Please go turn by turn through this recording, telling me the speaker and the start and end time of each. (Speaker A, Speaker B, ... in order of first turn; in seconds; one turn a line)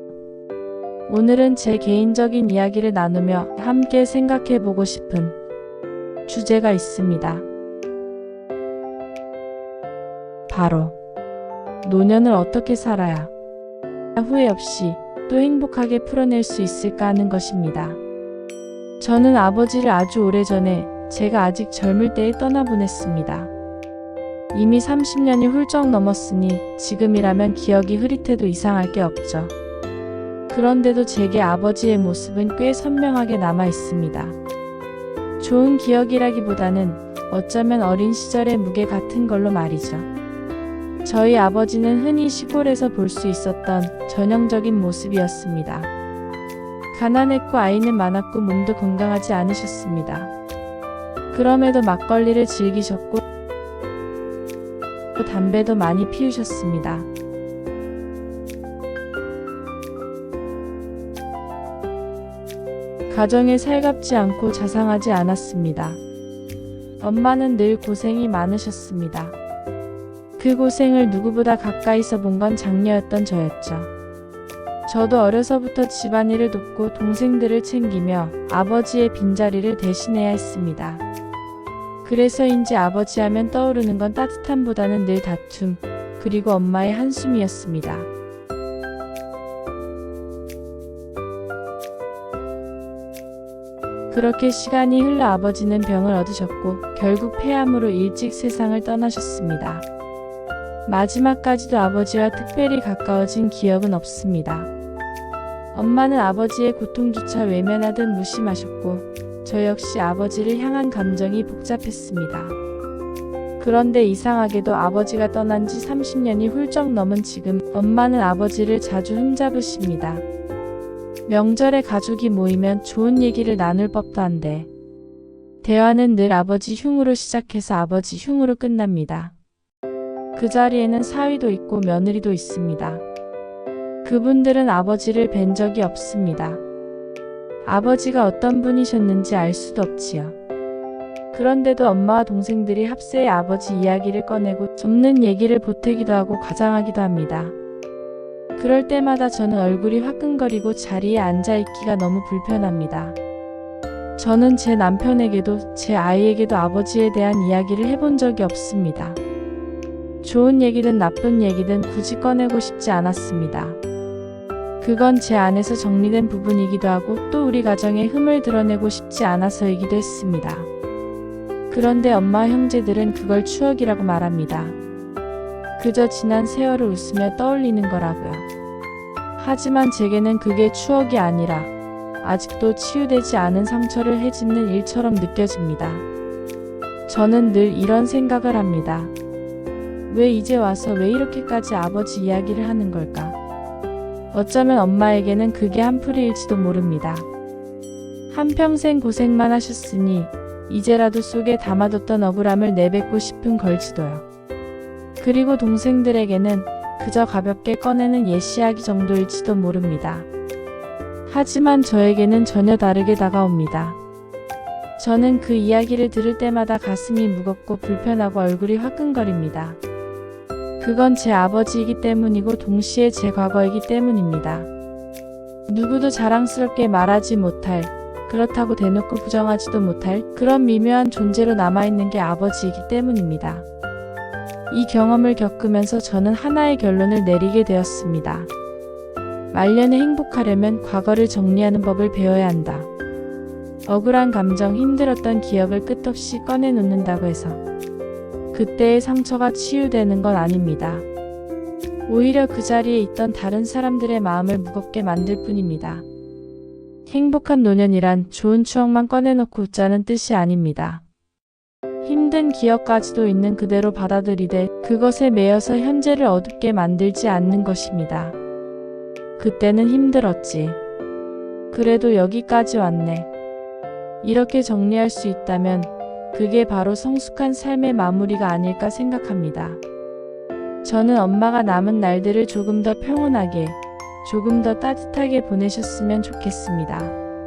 Speaker A: 1.1-5.4
Speaker A: 6.3-7.5
Speaker A: 10.5-10.9
Speaker A: 11.8-13.3
Speaker A: 14.2-18.0
Speaker A: 19.0-23.5
Speaker A: 24.5-29.5
Speaker A: 30.5-34.4
Speaker A: 35.4-40.1
Speaker A: 41.0-45.9
Speaker A: 46.9-50.3
Speaker A: 51.3-53.2
Speaker A: 55.1-57.1
Speaker A: 63.1-66.0
Speaker A: 67.0-69.4
Speaker A: 70.4-73.9
Speaker A: 74.9-81.0
Speaker A: 82.0-88.1
Speaker A: 94.1-99.8
Speaker A: 100.9-104.7
Speaker A: 105.7-112.5
Speaker A: 113.6-120.2
Speaker A: 121.3-124.7
Speaker A: 125.6-129.3
Speaker A: 130.3-133.0
Speaker A: 134.0-136.6
Speaker A: 137.7-140.4
Speaker A: 141.3-147.6
Speaker A: 148.6-153.2
Speaker A: 154.2-159.2
Speaker A: 160.2-163.8
Speaker A: 164.8-170.7
Speaker A: 171.7-174.8
Speaker A: 175.8-178.5
Speaker A: 179.4-181.7
Speaker A: 182.2-186.1
Speaker A: 187.1-189.1
Speaker A: 190.1-193.4
Speaker A: 194.3-197.3
Speaker A: 198.3-204.3
Speaker A: 205.2-210.3
Speaker A: 211.3-214.0
Speaker A: 215.0-219.8
Speaker A: 220.8-224.7
Speaker A: 225.7-233.7
Speaker A: 234.7-238.5
Speaker A: 239.5-242.9
Speaker A: 243.9-247.6
Speaker A: 248.5-251.1
Speaker A: 252.1-256.1
Speaker A: 257.1-261.0
Speaker A: 262.0-268.4
Speaker A: 269.4-270.8
Speaker A: 271.7-273.3
Speaker A: 274.2-279.8
Speaker A: 280.8-287.2